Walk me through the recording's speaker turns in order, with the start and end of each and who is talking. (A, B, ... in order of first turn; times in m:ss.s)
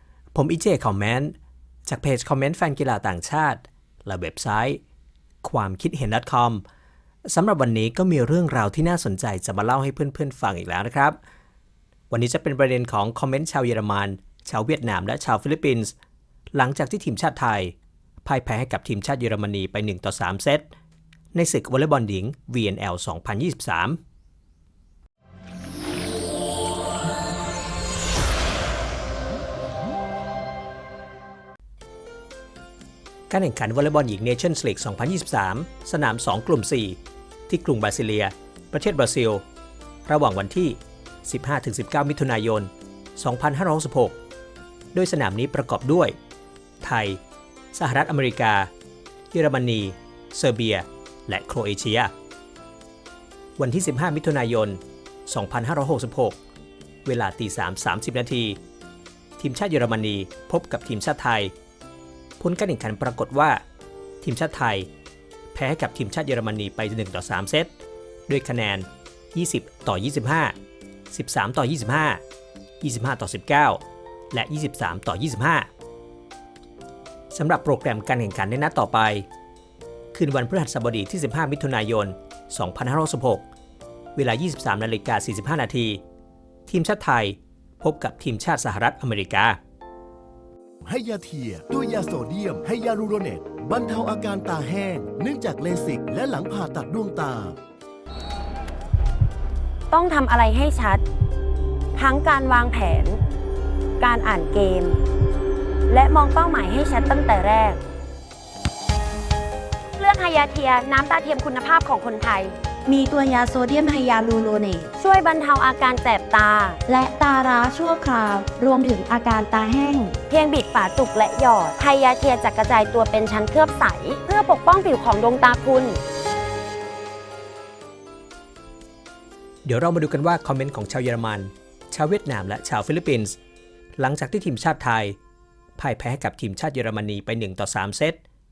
0:00.3-0:01.3 A
0:01.9-0:04.8 A
0:05.4-0:06.6 A
0:07.3-0:11.2 A
0:12.1-0:15.9 A
0:16.5-0:20.7 A
0:21.3-0:24.0 A
0:33.3-0:37.0 A
0:37.5-0:39.4 A
0:40.1-0:44.2 A
0:44.9-0:46.2 A
0:46.8-0:47.2 A
0:47.7-0:48.7 A
0:49.3-0:52.1 A
0:53.6-0:56.4 A
0:57.0-0:58.6 A
0:59.4-1:01.5 A
1:02.4-1:03.6 A
1:04.2-1:04.9 A
1:05.5-1:07.7 A
1:08.3-1:10.6 A
1:11.1-1:12.2 A
1:12.8-1:15.7 A
1:17.3-1:19.3 A
1:20.1-1:23.5 A
1:24.2-1:26.0 A
1:26.7-1:29.6 A
1:30.8-1:37.6 B
1:39.9-1:41.0 C
1:42.0-1:43.2 C
1:44.0-1:45.0 C
1:45.9-1:47.8 C
1:50.0-1:52.6 C
1:52.9-1:54.9 D
1:55.0-1:56.8 C
1:56.9-2:00.2 D
2:00.3-2:06.0 C
2:09.6-2:13.4 A
2:14.0-2:15.2 A
2:15.8-2:18.2 A